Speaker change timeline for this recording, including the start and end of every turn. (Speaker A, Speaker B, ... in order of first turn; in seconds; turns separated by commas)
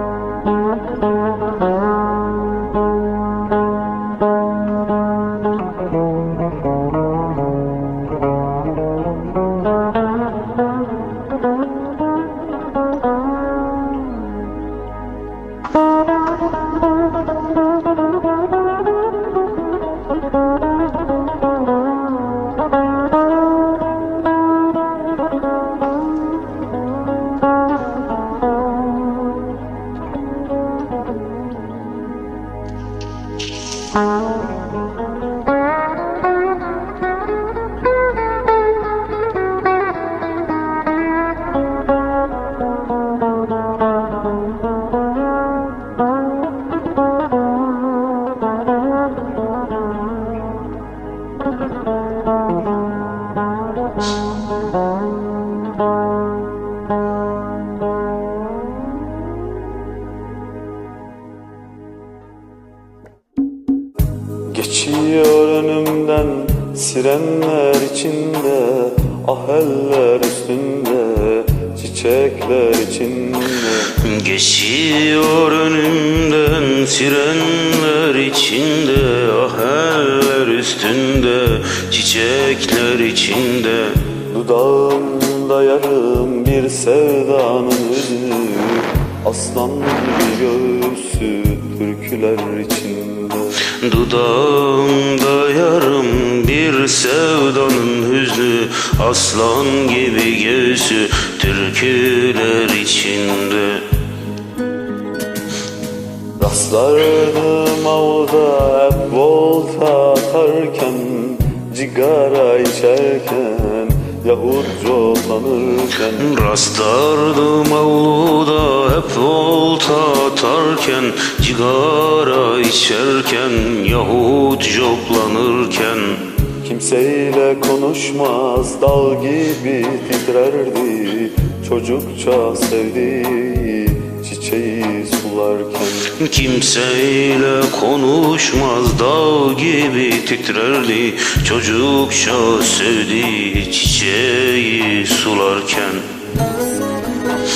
Speaker A: 64.5-73.9, Speaker B: 73.9-84.0, Speaker A: 84.3-93.6, Speaker B: 93.7-103.9, Speaker A: 106.4-116.3, Speaker B: 116.2-126.2, Speaker A: 126.6-136.1, Speaker B: 136.1-146.1